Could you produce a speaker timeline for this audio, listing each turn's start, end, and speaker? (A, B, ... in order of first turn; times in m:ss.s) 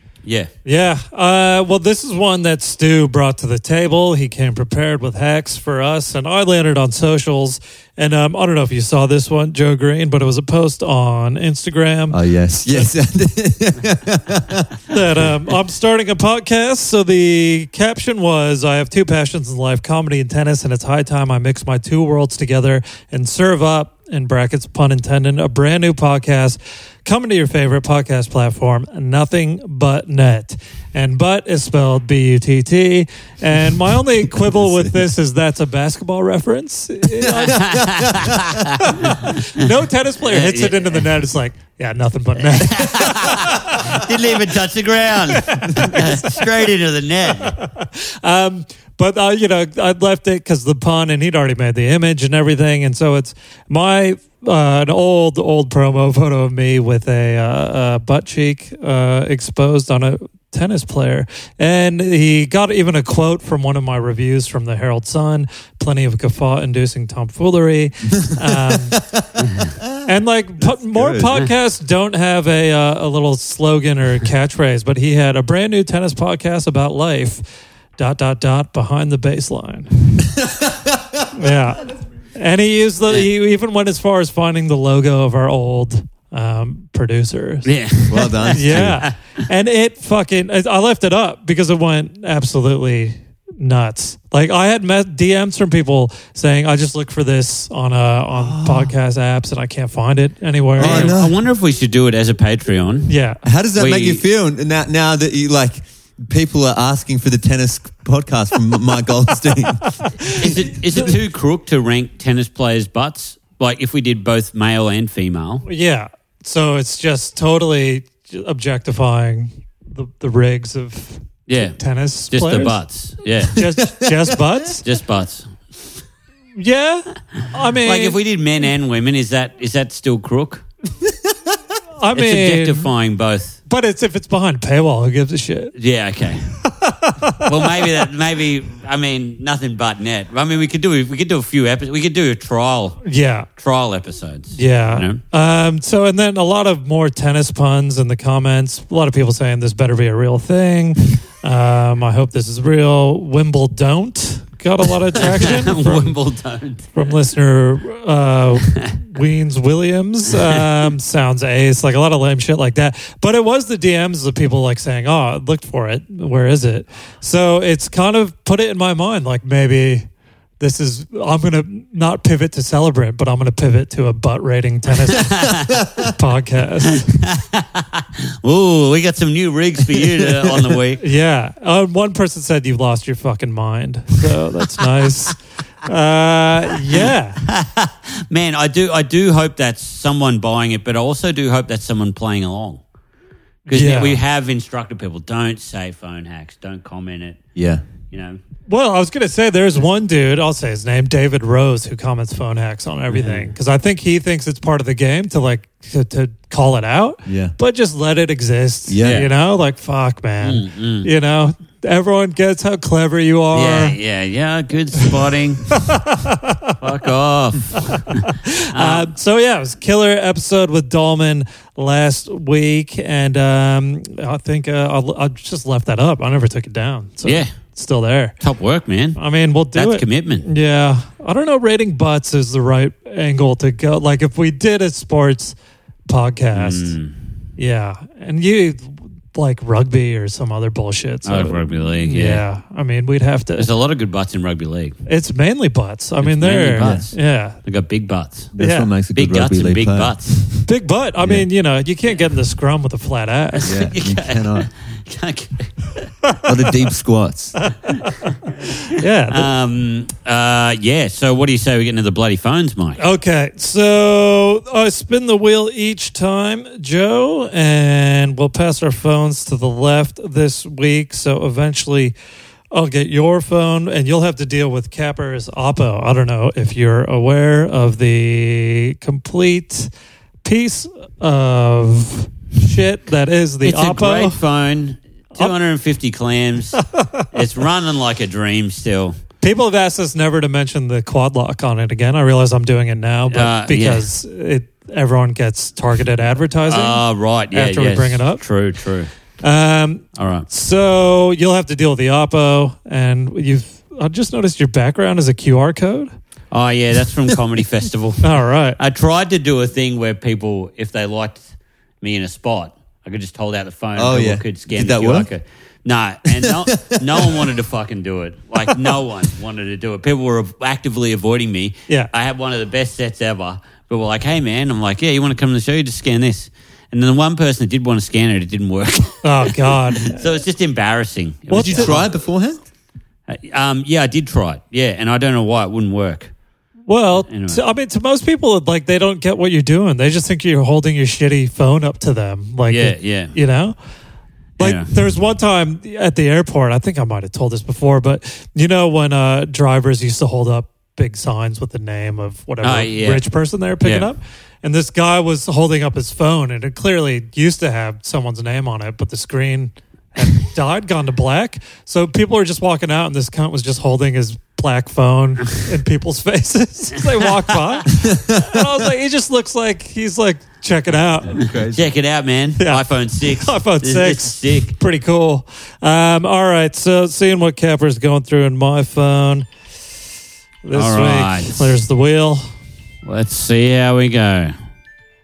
0:00.2-0:00.5 A
0:00.6-0:12.2 B
0:12.1-0:14.7 C
0:14.9-0:37.7 B
0:34.4-0:35.0 C
0:37.4-0:39.5 A
0:37.5-0:38.7 C
0:38.8-0:44.1 B
0:40.2-0:41.1 A
0:42.6-0:47.5 A
0:45.3-0:46.5 B
0:47.4-1:09.0 B
1:08.2-1:10.0 C
1:09.4-1:09.7 A
1:10.0-1:17.4 B
1:10.6-1:11.4 C
1:18.0-1:20.1 B
1:20.2-1:21.3 C
1:21.3-1:27.7 B
1:27.6-1:29.1 A
1:28.1-1:29.0 C
1:28.5-1:41.2 B
1:38.3-1:38.9 C
1:40.8-1:43.1 A
1:40.8-1:41.4 C
1:43.1-1:43.4 B
1:43.4-1:51.1 C
1:43.8-1:44.2 A
1:50.2-1:50.5 B
1:50.3-1:55.6 A
1:55.6-2:02.8 B
2:01.5-2:01.8 A
2:02.3-2:03.6 A
2:03.5-2:04.8 B
2:03.6-2:04.4 C
2:04.8-2:05.6 A
2:06.6-2:08.2 B
2:07.8-2:10.6 A
2:11.0-2:11.6 C
2:12.0-2:12.9 B
2:12.1-2:13.6 A
2:13.7-2:15.7 B
2:15.8-2:16.5 A
2:16.6-2:18.0 B
2:17.4-2:23.0 A
2:23.0-2:23.5 B
2:23.6-2:25.2 A
2:24.5-2:36.1 B
2:35.2-2:37.0 A
2:36.9-2:50.1 B
2:38.6-2:38.9 A
2:50.6-2:55.5 B
2:55.1-2:55.8 A
2:55.7-2:56.1 C
2:56.0-2:57.0 B
2:56.9-3:01.0 A
2:59.9-3:00.8 C
3:01.0-3:07.4 B
3:06.9-3:12.8 A
3:13.7-3:17.4 A
3:13.7-3:14.2 B
3:17.6-3:17.8 C
3:18.1-3:18.4 A
3:18.7-3:34.0 B
3:23.1-3:23.5 A
3:27.2-3:27.5 C
3:28.9-3:29.3 C
3:29.0-3:29.3 A
3:30.4-3:31.1 A
3:33.5-3:35.7 A
3:35.7-3:36.8 B
3:36.8-3:39.1 A
3:38.2-3:48.4 B
3:47.2-3:47.5 A
3:48.4-3:49.2 A
3:49.2-3:55.6 B
3:49.7-3:50.4 A
3:56.1-3:57.0 B
3:56.5-3:57.1 A
3:57.6-4:03.7 B
4:01.2-4:02.4 A
4:03.6-4:05.0 A
4:05.1-4:07.6 B
4:06.2-4:08.5 A
4:06.8-4:07.1 C
4:08.5-4:10.2 C
4:08.6-4:08.9 B
4:09.1-4:10.6 A
4:10.6-4:13.9 B
4:11.2-4:11.4 C
4:13.6-4:16.1 A
4:13.6-4:14.7 C
4:16.4-4:17.6 C
4:17.6-4:19.5 B
4:18.1-4:18.5 A
4:19.3-4:23.0 A
4:23.0-4:32.1 B
4:32.7-4:39.9 B
4:40.4-4:44.4 B
4:43.6-4:46.8 A
4:46.8-4:47.3 B
4:47.3-4:49.2 A
4:49.4-4:58.4 B
4:53.3-4:54.0 A
4:56.7-4:59.1 A
4:59.4-5:06.1 B
5:00.2-5:00.5 A
5:06.5-5:11.5 A
5:08.2-5:08.8 B
5:12.0-5:32.0 A
5:14.0-5:15.3 C
5:16.3-5:17.5 C
5:29.2-5:30.2 B
5:31.5-5:32.0 B
5:31.6-5:32.6 C
5:33.3-5:36.3 A
5:36.9-5:43.8 B
5:37.2-5:37.6 A
5:42.7-5:43.3 A
5:44.6-5:44.9 A
5:44.6-6:11.4 B
5:52.6-5:53.2 A
5:53.8-5:54.1 A
6:07.9-6:08.7 C
6:11.3-6:11.8 C
6:11.4-6:14.7 A
6:12.6-6:19.5 B
6:20.6-6:22.5 B
6:20.7-6:21.8 A
6:23.0-6:24.5 A